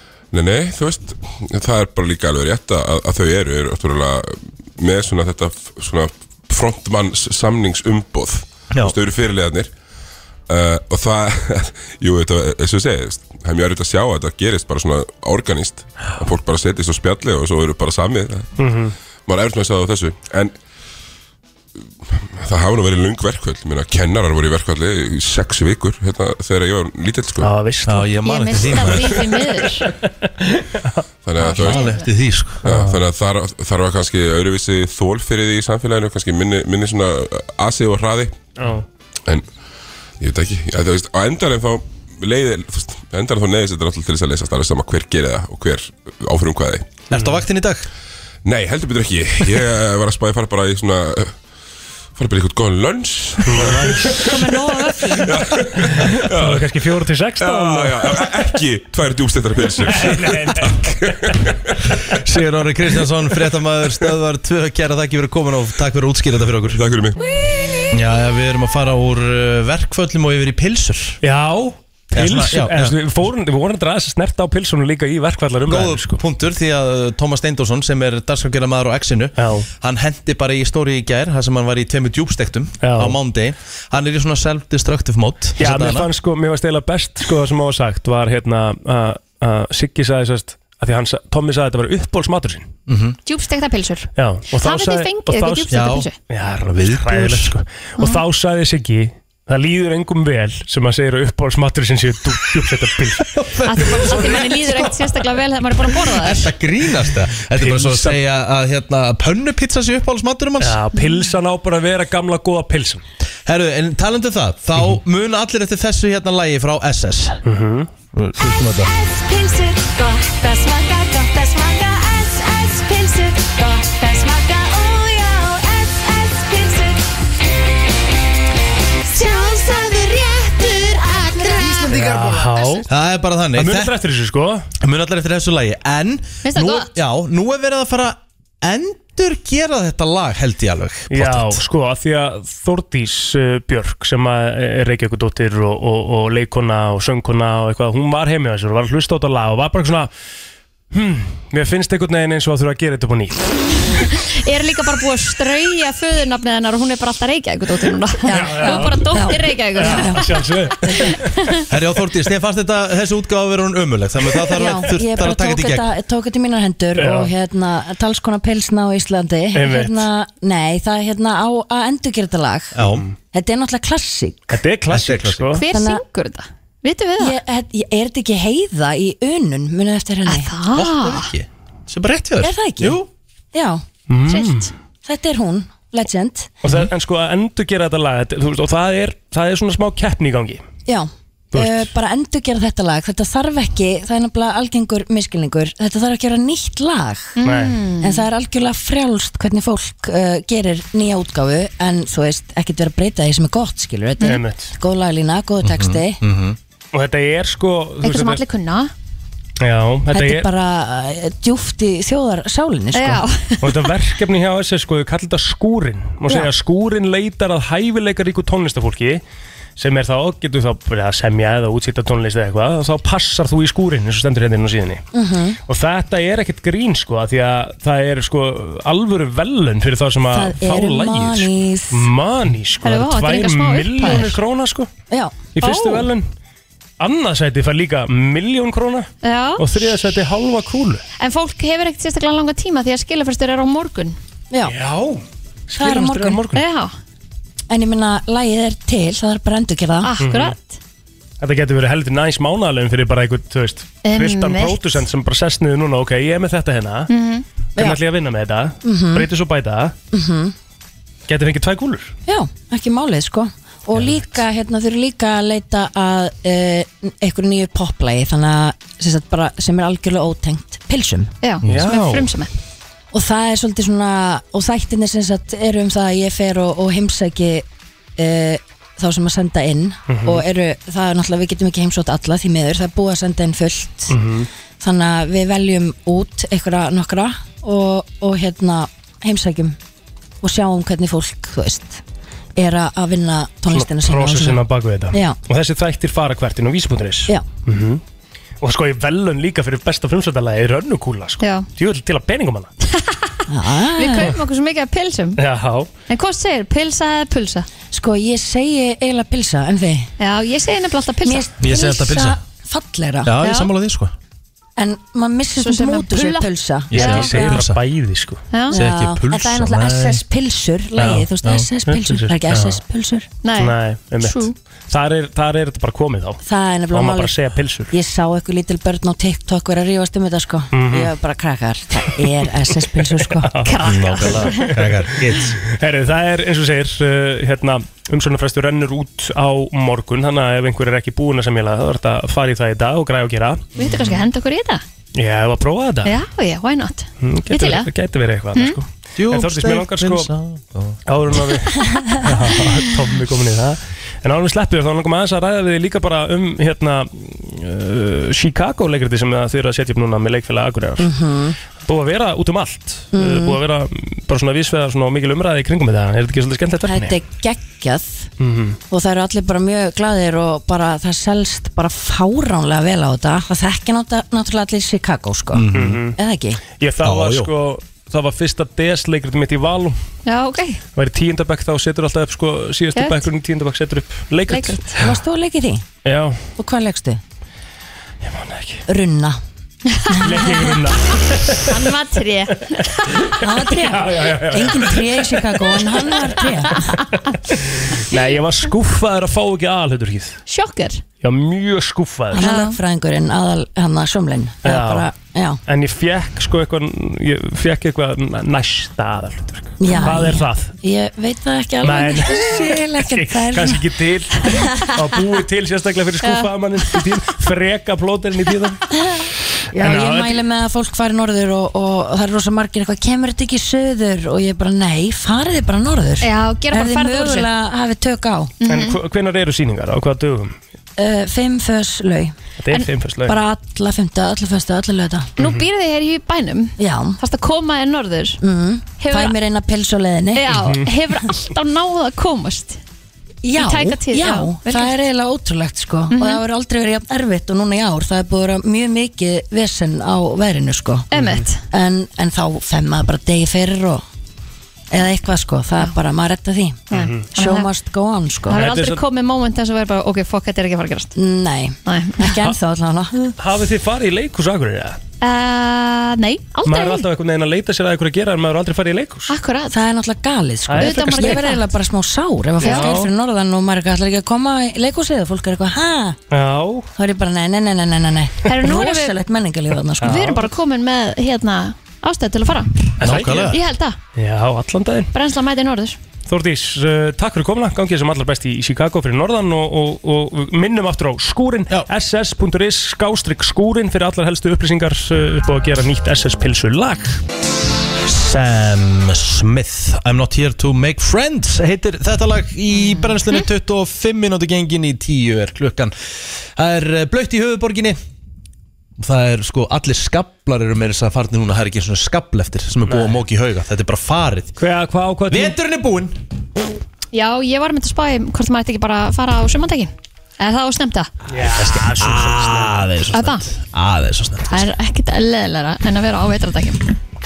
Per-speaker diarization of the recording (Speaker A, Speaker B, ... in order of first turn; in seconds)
Speaker A: 0.3-9.7, 10.5-18.5, 19.3-20.5, 22.2-27.5, 31.2-31.9, 32.6-38.4, 40.2-47.0, 48.5-51.3, 52.2-54.6, 55.1-62.0, 66.7-67.5
Speaker B: 8.7-9.0, 27.9-29.2, 31.6-32.7, 47.1-47.9, 62.1-66.8, 67.9-71.2, 72.1-73.0, 75.7-86.1, 92.9-93.2, 95.7-96.1, 96.7-97.5, 103.4-105.0, 106.1-110.8, 113.5-117.4, 118.1-118.9, 131.9-133.9, 134.8-141.6, 161.7-165.9, 172.8-173.1, 174.9-175.6, 180.7-183.1, 205.6-206.6, 271.6-271.9, 311.6-312.4, 313.2-314.1, 316.9-317.8, 318.7-320.2, 321.0-321.7, 333.8-335.6, 349.2-351.4, 375.5-376.0, 377.0-377.5, 483.0-483.6, 498.1-508.0, 509.0-514.5, 515.3-516.2, 521.4-524.6
Speaker C: 18.6-18.9, 27.4-28.1, 30.0-31.0, 32.7-33.0, 38.6-38.9, 47.1-47.4, 53.5-54.5, 55.8-58.3, 59.8-61.1, 71.2-76.2, 79.4-79.7, 82.8-83.2, 85.6-92.7, 94.2-95.7, 96.3-103.3, 107.5-108.2, 110.6-113.0, 117.4-117.9, 131.9-132.9, 133.6-134.7, 141.1-150.1, 150.9-153.5, 158.2-161.3, 167.0-167.3, 169.5-170.1, 172.8-173.1, 174.5-175.7, 184.1-184.7, 186.6-190.7, 191.5-191.9, 197.4-197.8, 204.2-204.7, 206.9-208.4, 209.6-210.5, 213.6-219.2, 219.8-225.1, 225.7-234.9, 235.6-236.3, 237.0-241.0, 244.7-246.6, 250.2-250.6, 251.4-257.1, 257.8-260.0, 261.3-262.1, 263.9-264.4, 271.7-272.3, 280.1-280.4, 284.1-284.5, 293.7-298.0, 298.6-302.7, 305.4-305.9, 316.9-318.4, 321.9-322.8, 323.6-327.9, 330.7-331.1, 333.4-334.6, 335.6-344.0, 345.1-346.1, 347.2-350.3, 351.1-361.1, 361.8-367.2, 368.4-368.8, 375.7-376.2, 376.8-380.0, 381.0-385.0, 386.1-386.4, 388.2-388.8, 390.2-391.9, 393.1-395.9, 397.3-400.4, 401.2-402.5, 404.6-405.1, 405.7-410.8, 411.8-418.8, 419.8-420.4, 428.7-430.6, 432.6-433.4, 435.4-435.6, 440.5-440.9, 451.1-451.5, 456.9-457.3, 458.5-459.0, 463.4-465.0, 466.6-469.3, 470.7-471.5, 472.6-473.1, 476.3-476.9, 480.0-480.5, 483.0-483.6, 484.1-485.1, 486.3-497.2, 512.9-513.2, 514.6-515.5, 521.3-522.8
Speaker D: 28.2-29.9, 31.4-32.1, 54.2-55.2, 93.3-96.1, 103.7-106.5, 136.4-136.9, 154.0-160.3, 161.1-161.5, 175.6-177.4, 180.3-181.3, 184.3-184.7, 197.4-198.3, 208.0-208.9, 212.9-213.7, 232.8-234.3, 235.6-236.0, 239.2-239.6, 241.2-244.2, 246.5-246.9, 250.0-250.8, 254.1-255.0, 257.1-257.4, 271.4-272.5, 301.4-301.7, 303.0-303.4, 303.9-305.4, 306.1-307.7, 310.2-311.5, 313.4-313.7, 315.6-317.6, 318.5-318.8, 323.4-324.5, 333.7-334.8, 343.8-344.8, 346.1-347.9, 380.3-380.8, 383.0-383.2, 384.5-385.0, 391.6-393.2, 398.1-398.4, 400.5-401.0, 402.4-402.8, 409.9-410.3, 426.2-427.5, 428.6-429.0, 435.4-438.4, 439.0-439.4, 440.4-442.8, 443.6-445.0, 446.1-446.4, 451.1-451.6, 456.9-457.7, 458.5-461.1, 461.9-462.4, 465.2-467.1, 469.3-469.8, 470.8-471.7, 472.6-473.0, 478.5-479.2, 480.0-484.0, 485.1-486.0, 502.7-503.5, 517.1-521.1, 523.1-523.4, 524.5-526.9
Speaker E: 118.6-127.2, 129.1-132.8
Speaker F: 158.6-160.3, 164.5-172.8, 173.3-174.6, 175.7-176.0, 177.2-180.5, 182.4-183.0, 183.5-183.8, 185.0-186.5, 190.9-197.4, 198.0-206.2, 210.1-213.2, 225.1-225.6, 230.3-232.1, 234.0-234.3, 235.1-235.3, 245.8-246.4, 247.7-250.1, 258.8-259.3, 260.1-260.6, 262.3-271.3, 273.1-277.7, 278.2-284.1, 284.8-289.8, 290.4-292.0, 292.6-295.4, 303.5-304.3, 307.9-310.1, 311.2-313.3, 314.8-317.2, 318.7-323.3, 326.4-327.4, 327.9-333.7, 361.0-361.6, 363.1-363.6, 366.9-368.3, 368.9-375.6, 376.2-376.6, 385.0-385.8, 386.6-387.2, 388.9-389.4, 393.4-396.9, 402.3-405.6, 409.8-413.9, 419.1-428.5, 431.0-432.4, 433.2-435.3, 436.8-437.2, 438.4-440.6, 443.4-451.1, 451.7-454.0, 454.9-456.8, 457.4-458.6, 461.1-463.3, 469.7-476.2, 476.9-480.4